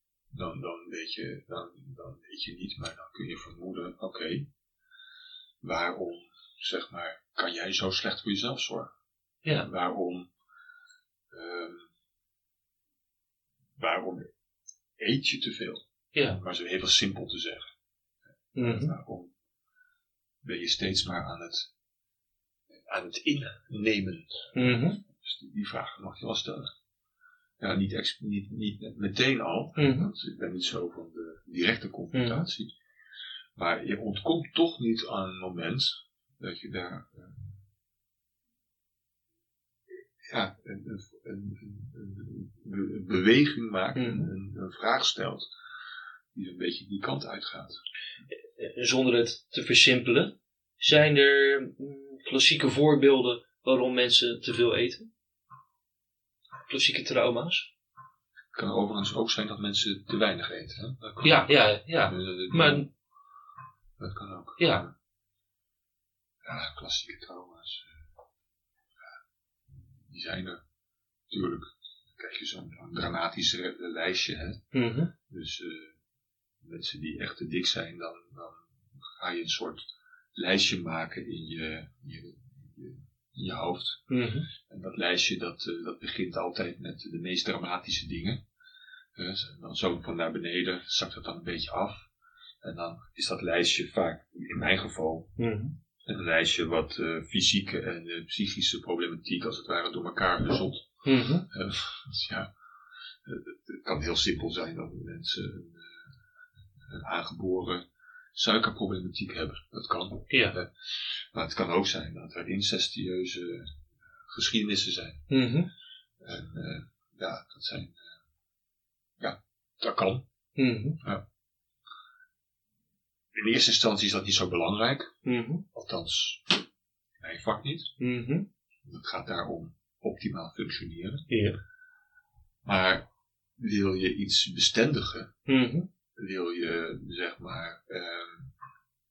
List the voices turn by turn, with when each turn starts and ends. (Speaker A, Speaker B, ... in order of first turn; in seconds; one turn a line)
Speaker A: 0.3-4.5
Speaker A: 5.6-8.9
Speaker A: 9.6-10.3
Speaker A: 11.3-11.9
Speaker A: 13.8-14.3
Speaker A: 15.0-17.7
Speaker B: 18.6-18.9
Speaker A: 18.6-19.3
Speaker A: 20.4-21.7
Speaker A: 22.7-26.7
Speaker B: 24.6-25.0
Speaker A: 27.6-32.7
Speaker B: 29.8-30.1
Speaker B: 32.1-32.5
Speaker A: 33.6-37.6
Speaker A: 40.2-45.5
Speaker B: 44.0-44.3
Speaker A: 46.3-47.8
Speaker B: 48.6-55.1
Speaker B: 56.7-57.7
Speaker A: 58.5-61.5
Speaker B: 61.2-62.9
Speaker A: 62.0-62.9
Speaker A: 64.0-64.9
Speaker B: 64.6-64.8
Speaker A: 66.4-68.0
Speaker A: 69.7-70.6
Speaker A: 71.3-74.6
Speaker B: 74.7-75.1
Speaker A: 75.3-76.0
Speaker A: 76.6-84.1
Speaker B: 84.1-84.5
Speaker A: 84.6-88.4
Speaker A: 89.2-92.1
Speaker A: 92.6-95.3
Speaker B: 95.4-95.8
Speaker A: 96.0-100.9
Speaker B: 101.0-101.5
Speaker A: 101.5-102.5
Speaker A: 103.2-106.1
Speaker A: 106.8-115.3
Speaker B: 110.3-110.6
Speaker B: 115.3-115.7
Speaker A: 116.2-118.1
Speaker A: 119.2-120.2
Speaker B: 120.6-121.0
Speaker A: 123.3-125.1
Speaker B: 125.2-125.6
Speaker A: 125.7-126.6
Speaker A: 127.2-127.9
Speaker B: 128.0-128.5
Speaker A: 128.8-131.3
Speaker B: 131.3-131.6
Speaker A: 132.7-133.1
Speaker A: 133.6-135.3
Speaker B: 135.5-135.9
Speaker A: 136.2-138.5